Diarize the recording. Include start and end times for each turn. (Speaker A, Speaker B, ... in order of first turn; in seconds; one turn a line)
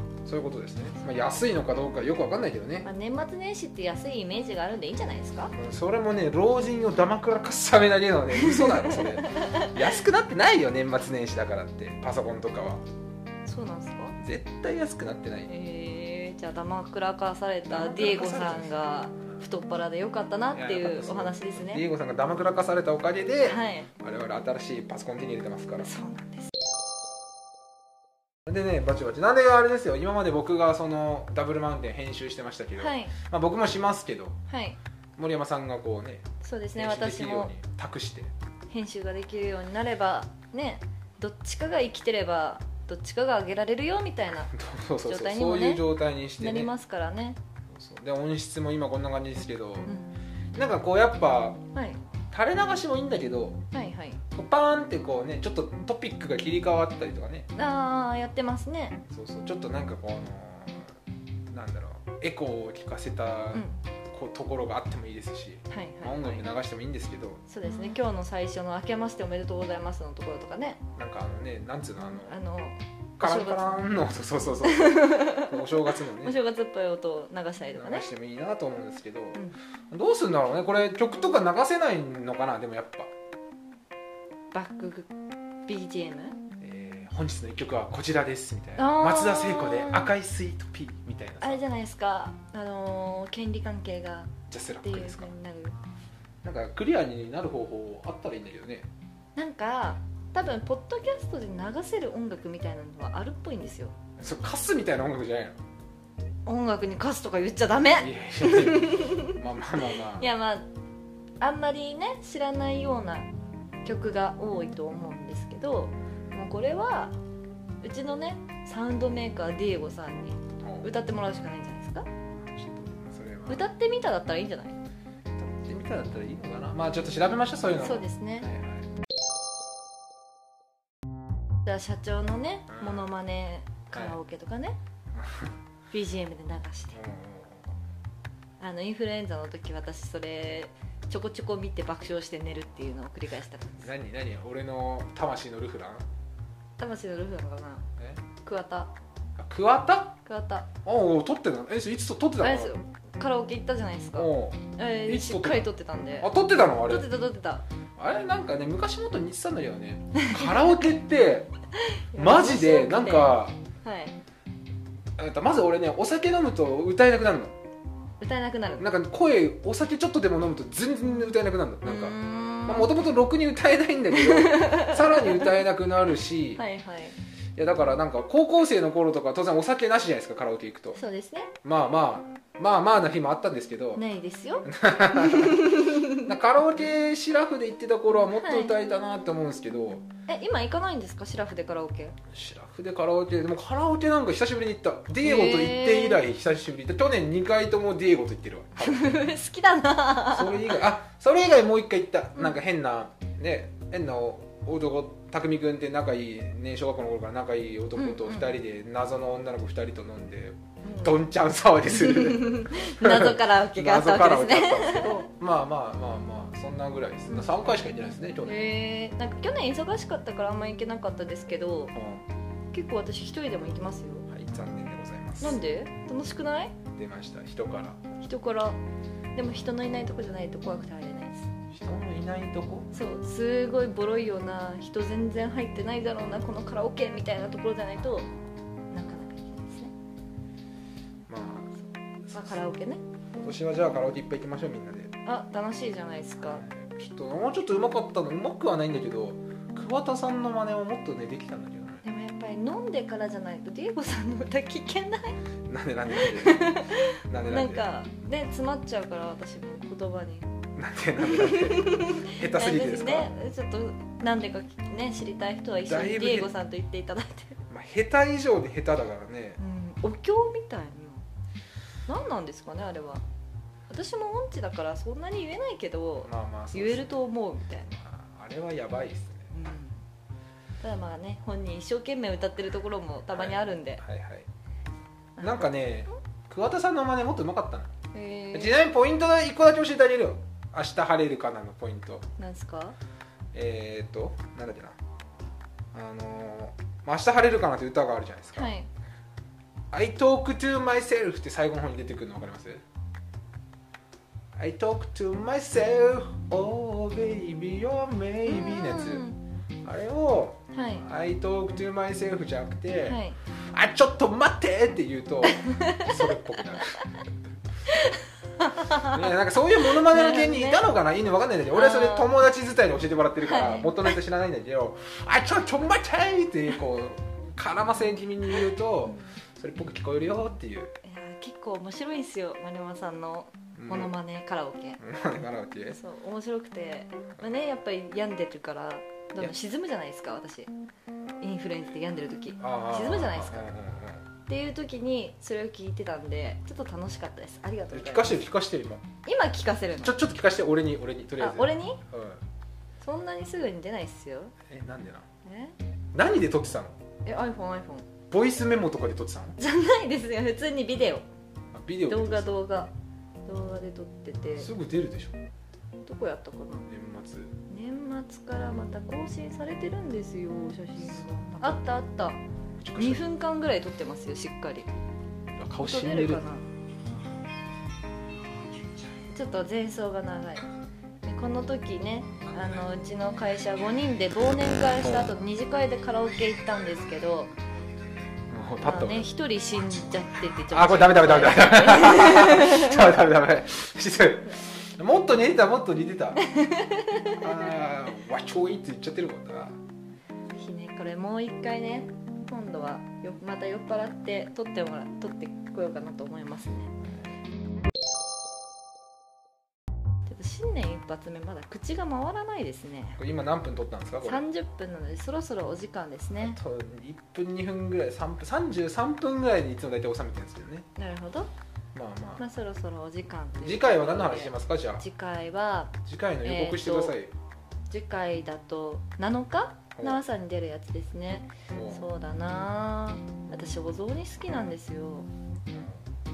Speaker A: 0.3-2.9
Speaker B: 2.8-5.5
Speaker A: 5.5-12.8
Speaker B: 8.3-9.8
Speaker B: 13.5-14.2
Speaker A: 14.2-15.5
Speaker B: 15.5-21.9
Speaker A: 17.7-18.9
Speaker A: 20.5-25.9
Speaker B: 23.4-23.9
Speaker B: 25.8-26.5
Speaker A: 28.5-34.4
Speaker B: 32.8-33.1
Speaker B: 34.5-34.8
Speaker A: 35.2-36.2
Speaker B: 36.4-37.5
Speaker A: 36.8-38.3
Speaker B: 38.7-44.5
Speaker A: 44.5-46.7
Speaker B: 45.1-45.9
Speaker B: 46.4-47.4
Speaker A: 47.7-49.9
Speaker B: 49.9-50.1
Speaker A: 50.5-51.6
Speaker B: 51.7-52.0
Speaker A: 52.3-53.6
Speaker B: 53.7-54.2
Speaker A: 54.3-57.5
Speaker B: 57.5-59.0
Speaker A: 59.1-61.0
Speaker A: 61.5-67.4
Speaker B: 63.5-63.8
Speaker B: 65.7-66.5
Speaker B: 67.5-70.8
Speaker A: 71.0-72.4
Speaker B: 72.2-73.9
Speaker A: 73.2-76.4
Speaker B: 74.6-78.1
Speaker A: 77.8-83.1
Speaker B: 84.5-85.1
Speaker B: 85.7-86.4
Speaker A: 86.6-91.6
Speaker B: 88.8-90.1
Speaker B: 91.4-95.8
Speaker A: 94.5-95.3
Speaker A: 96.4-98.9
Speaker B: 99.4-104.0
Speaker A: 104.2-105.6
Speaker B: 106.5-110.7
Speaker A: 108.0-110.3
Speaker B: 111.4-113.3
Speaker B: 113.8-117.1
Speaker B: 117.8-122.1
Speaker A: 120.6-120.9
Speaker A: 122.4-123.7
Speaker B: 123.5-124.8
Speaker A: 125.4-128.9
Speaker B: 127.8-128.5
Speaker B: 131.7-134.8
Speaker A: 132.7-133.1
Speaker A: 135.2-135.5
Speaker B: 135.9-137.0
Speaker A: 136.9-137.7
Speaker B: 138.6-143.9
Speaker A: 143.8-146.0
Speaker B: 146.8-147.9
Speaker B: 148.4-148.9
Speaker A: 149.4-150.2
Speaker B: 150.3-150.7
Speaker A: 150.8-152.7
Speaker B: 152.4-157.7
Speaker A: 154.2-155.7
Speaker A: 156.2-157.1
Speaker A: 158.0-161.5
Speaker B: 160.2-160.5
Speaker B: 161.8-164.2
Speaker A: 162.2-163.6
Speaker A: 165.2-167.6
Speaker B: 168.2-168.9
Speaker A: 168.8-176.6
Speaker B: 171.8-172.9
Speaker B: 174.1-175.5
Speaker B: 176.6-177.2
Speaker A: 177.6-181.0
Speaker B: 180.9-181.5
Speaker A: 181.6-184.0
Speaker B: 184.0-186.3
Speaker A: 184.7-190.1
Speaker B: 188.4-188.7
Speaker B: 190.3-192.2
Speaker A: 192.3-199.3
Speaker B: 195.2-196.2
Speaker B: 198.8-200.8
Speaker A: 200.3-218.6
Speaker B: 208.0-208.5
Speaker B: 210.8-211.2
Speaker B: 211.9-215.2
Speaker B: 218.4-222.0
Speaker A: 221.9-222.2
Speaker B: 222.7-224.3
Speaker A: 224.3-225.6
Speaker B: 225.4-226.8
Speaker A: 226.9-228.2
Speaker B: 228.2-228.8
Speaker B: 229.3-231.5
Speaker A: 231.7-232.9
Speaker B: 232.9-238.3
Speaker B: 238.9-239.9
Speaker A: 241.3-241.7
Speaker A: 242.3-242.6
Speaker B: 242.3-243.0
Speaker A: 243.4-245.1
Speaker B: 245.2-246.7
Speaker A: 246.4-252.0
Speaker B: 252.0-255.4
Speaker A: 255.7-257.9
Speaker B: 256.1-260.5
Speaker A: 260.8-263.3
Speaker B: 261.2-267.6
Speaker A: 265.9-266.5
Speaker A: 267.7-269.6
Speaker B: 269.6-271.2
Speaker B: 272.1-273.2
Speaker B: 273.9-277.9
Speaker A: 276.2-277.2
Speaker A: 277.9-279.6
Speaker B: 279.5-280.0
Speaker B: 280.8-284.0
Speaker A: 283.3-284.5
Speaker B: 285.4-285.7
Speaker A: 285.4-287.9
Speaker B: 288.1-288.8
Speaker A: 288.5-292.2
Speaker B: 292.4-293.0
Speaker A: 293.5-295.0
Speaker A: 295.9-298.7
Speaker B: 298.6-298.9
Speaker A: 299.9-302.8
Speaker A: 304.6-309.2
Speaker B: 308.5-309.4
Speaker A: 309.9-313.2
Speaker B: 310.7-311.1
Speaker B: 313.0-313.4
Speaker A: 313.7-317.1
Speaker B: 315.4-316.9
Speaker B: 317.9-319.2
Speaker A: 319.0-330.9
Speaker B: 319.9-320.9
Speaker B: 321.7-322.3
Speaker B: 323.4-324.2
Speaker B: 329.1-329.4
Speaker B: 331.0-335.0
Speaker A: 333.8-334.1
Speaker A: 335.0-336.0
Speaker B: 335.9-340.7
Speaker B: 341.4-343.7
Speaker A: 342.6-344.3
Speaker B: 344.5-348.4
Speaker A: 347.9-349.1
Speaker B: 349.2-350.2
Speaker A: 350.0-352.4
Speaker B: 351.4-352.0
Speaker B: 353.0-354.5
Speaker A: 354.7-355.3
Speaker B: 355.4-355.8
Speaker A: 356.1-357.0
Speaker B: 357.2-358.1
Speaker A: 358.3-359.6
Speaker B: 359.6-361.2
Speaker A: 361.7-362.5
Speaker B: 362.1-362.9
Speaker B: 363.5-364.7
Speaker A: 364.6-365.4
Speaker B: 366.1-366.9
Speaker A: 366.9-367.5
Speaker B: 367.7-372.4
Speaker A: 371.1-372.0
Speaker A: 372.8-373.2
Speaker B: 372.9-374.9
Speaker A: 375.6-376.4
Speaker B: 375.8-376.7
Speaker B: 379.3-380.6
Speaker B: 381.2-387.5
Speaker A: 385.0-385.3
Speaker A: 388.5-389.3
Speaker B: 388.9-393.1
Speaker A: 390.7-396.4
Speaker B: 396.4-397.5
Speaker A: 397.3-399.8
Speaker B: 400.5-407.0
Speaker B: 410.3-413.2
Speaker A: 413.2-414.5
Speaker B: 414.2-416.6
Speaker A: 416.4-420.9
Speaker B: 421.0-421.5
Speaker A: 421.9-422.4
Speaker B: 422.4-427.1
Speaker A: 423.6-425.0
Speaker A: 426.1-427.3
Speaker B: 427.9-435.3
Speaker A: 430.0-430.2
Speaker A: 431.7-432.1
Speaker A: 435.7-436.0